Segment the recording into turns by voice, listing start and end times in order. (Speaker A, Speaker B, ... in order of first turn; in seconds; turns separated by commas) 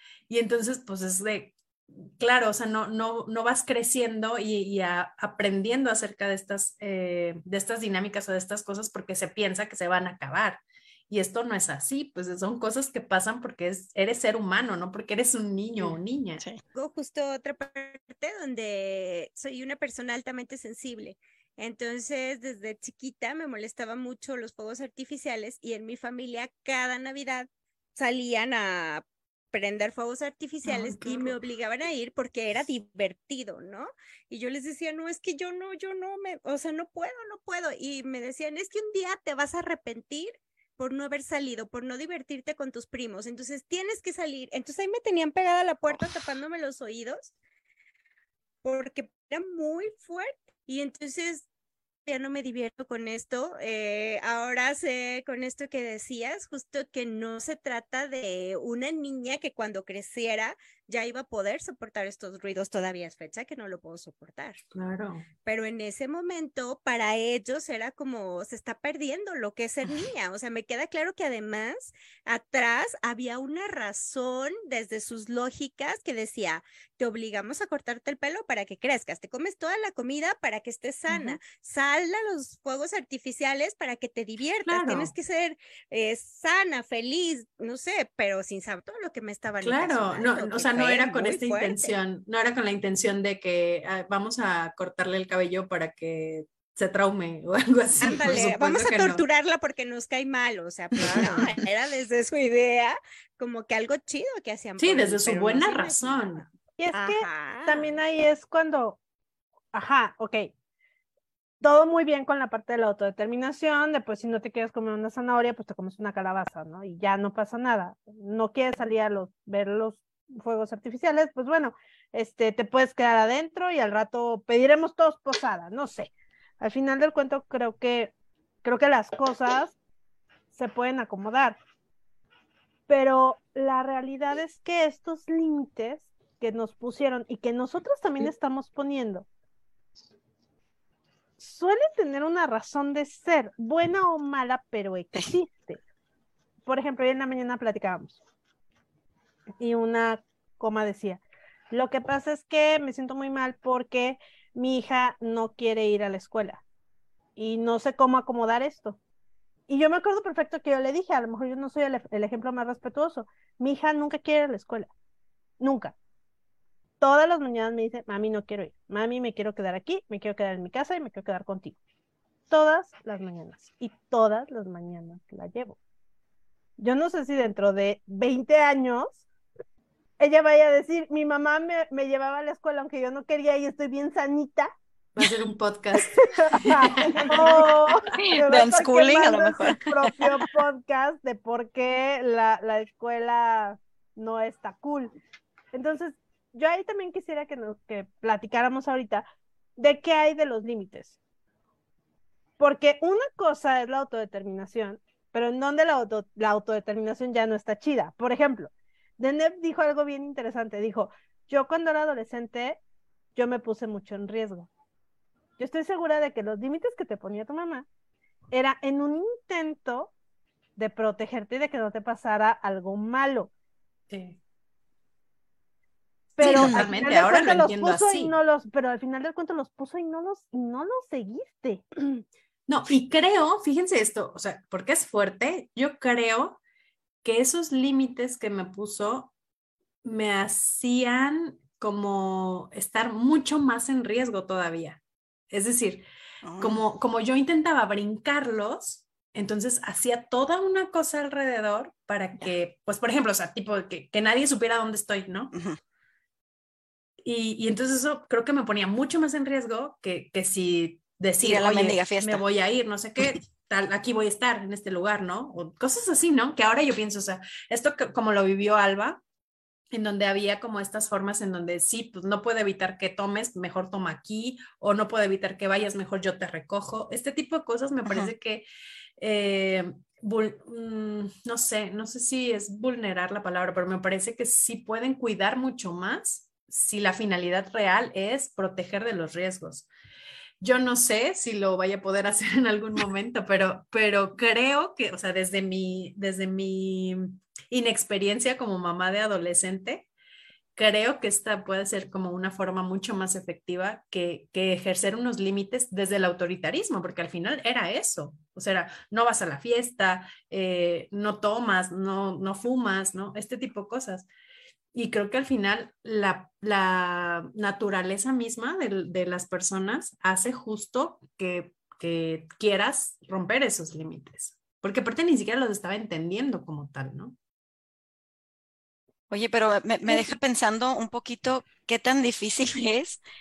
Speaker A: 0.3-16.4, Speaker B: 16.7-47.3, Speaker A: 30.6-31.3, Speaker B: 48.6-51.5, Speaker B: 52.0-64.6, Speaker A: 64.7-65.2, Speaker B: 65.4-91.9, Speaker A: 81.1-81.4, Speaker A: 84.6-85.1, Speaker A: 89.6-99.2, Speaker B: 98.0-107.9, Speaker A: 101.0-101.6, Speaker A: 104.8-106.4, Speaker C: 106.8-109.0, Speaker C: 109.7-110.5, Speaker C: 111.6-128.1, Speaker C: 128.6-129.8, Speaker C: 130.5-131.6, Speaker C: 132.9-139.3, Speaker C: 141.4-145.8, Speaker C: 146.7-148.2, Speaker C: 149.6-156.6, Speaker C: 157.3-159.0, Speaker C: 159.7-164.9, Speaker C: 165.6-165.9, Speaker C: 167.0-171.8, Speaker C: 172.5-175.8, Speaker C: 176.8-179.2, Speaker C: 180.2-184.7, Speaker A: 185.1-187.8, Speaker C: 186.1-195.1, Speaker D: 188.1-190.2, Speaker C: 195.7-199.2, Speaker C: 199.8-201.2, Speaker C: 202.6-212.8, Speaker C: 213.3-214.7, Speaker C: 215.6-217.8, Speaker C: 218.5-220.1, Speaker C: 220.8-223.5, Speaker A: 224.1-224.4, Speaker C: 226.4-232.2, Speaker D: 226.4-227.0, Speaker A: 226.4-228.3, Speaker A: 232.7-236.6, Speaker A: 237.2-239.3, Speaker A: 240.0-246.1, Speaker D: 246.4-246.8, Speaker A: 246.6-255.5, Speaker D: 255.5-255.8, Speaker A: 257.2-269.2, Speaker D: 261.4-262.4, Speaker A: 269.9-278.6, Speaker D: 278.0-278.3, Speaker A: 279.2-289.9, Speaker A: 290.6-300.1, Speaker A: 300.8-314.3, Speaker A: 314.9-327.4, Speaker D: 329.3-333.2